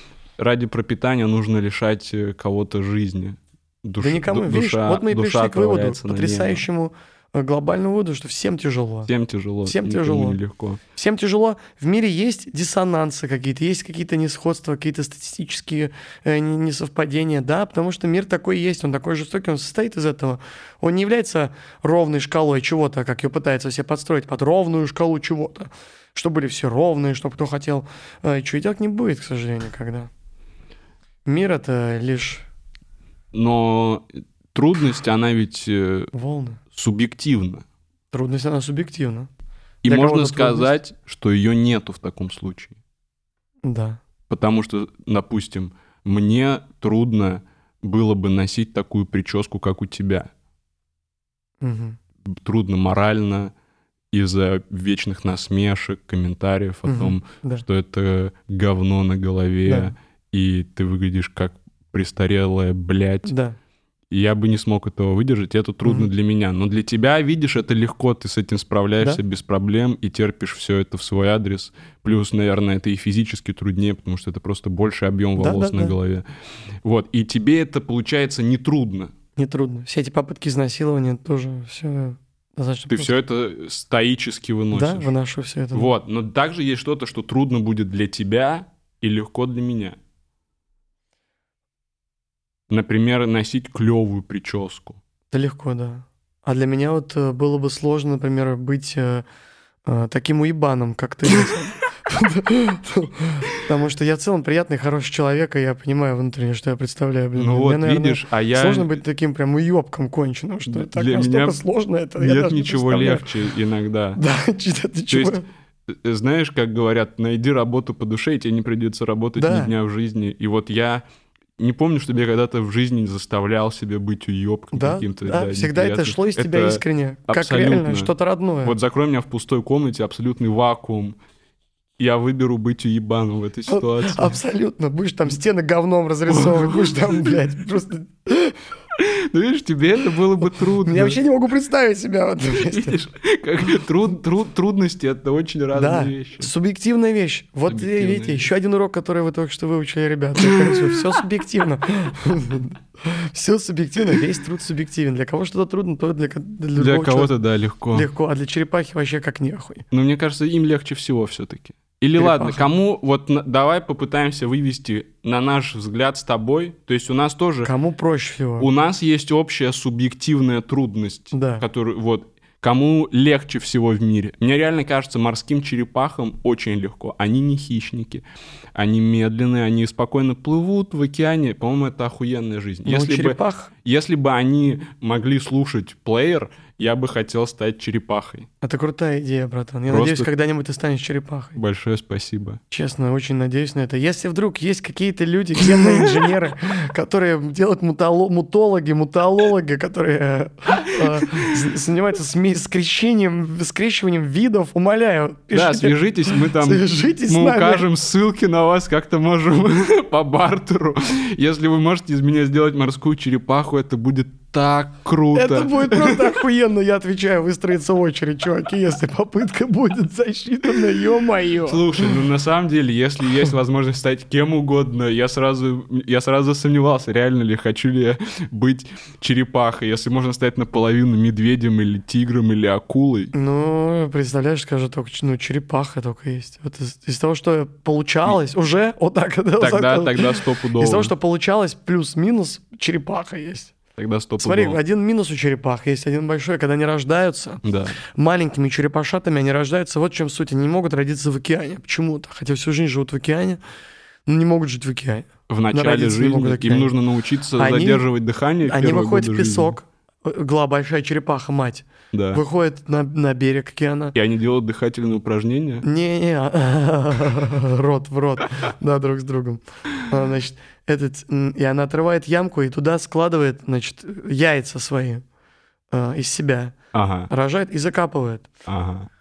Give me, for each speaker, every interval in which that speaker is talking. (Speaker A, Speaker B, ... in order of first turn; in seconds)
Speaker A: 0.4-6.6, 9.1-10.8, 33.3-36.1, 36.7-37.6, 39.8-42.8, 44.3-50.3, 52.3-53.5, 54.1-63.3, 64.1-76.2, 76.8-79.1, 82.9-85.1, 85.7-90.0, 92.7-95.0, 107.4-109.0, 110.7-111.6, 112.2-114.2, 115.1-121.0, 121.6-128.1, 128.6-131.2, 132.0-134.4, 136.3-137.4, 138.9-141.2, 142.5-146.5, 147.7-148.5, 150.4-151.2, 156.8-158.1, 159.9-167.7, 168.6-188.5, 189.9-190.3, 191.6-192.6, 195.6-196.3, 200.9-201.5, 205.5-216.4, 221.7-233.3, 239.6-241.1, 244.0-244.8, 247.6-248.0, 255.5-259.8, 262.1-262.4, 264.1-265.9, 276.9-277.3, 278.7-279.1
Speaker B: 4.0-9.1, 9.7-10.4, 10.9-30.1, 31.3-32.5, 36.1-36.6, 38.1-39.3, 39.9-40.8, 43.6-44.0, 51.6-52.0, 56.9-57.6, 59.7-59.9, 63.3-63.6, 75.4-76.0, 79.4-83.2, 84.7-85.9, 95.3-99.2, 99.9-113.3, 114.2-115.5, 119.4-119.7, 124.7-128.8, 133.7-138.6, 140.6-143.0, 145.7-157.3, 157.9-159.8, 162.2-162.7, 167.6-168.7, 171.3-171.7, 182.8-183.7, 188.6-191.6, 192.7-207.8, 215.3-222.2, 233.3-243.7, 244.4-253.6, 254.3-256.9, 257.6-258.1, 258.6-264.1, 265.8-275.2, 275.9-276.8, 277.3-278.5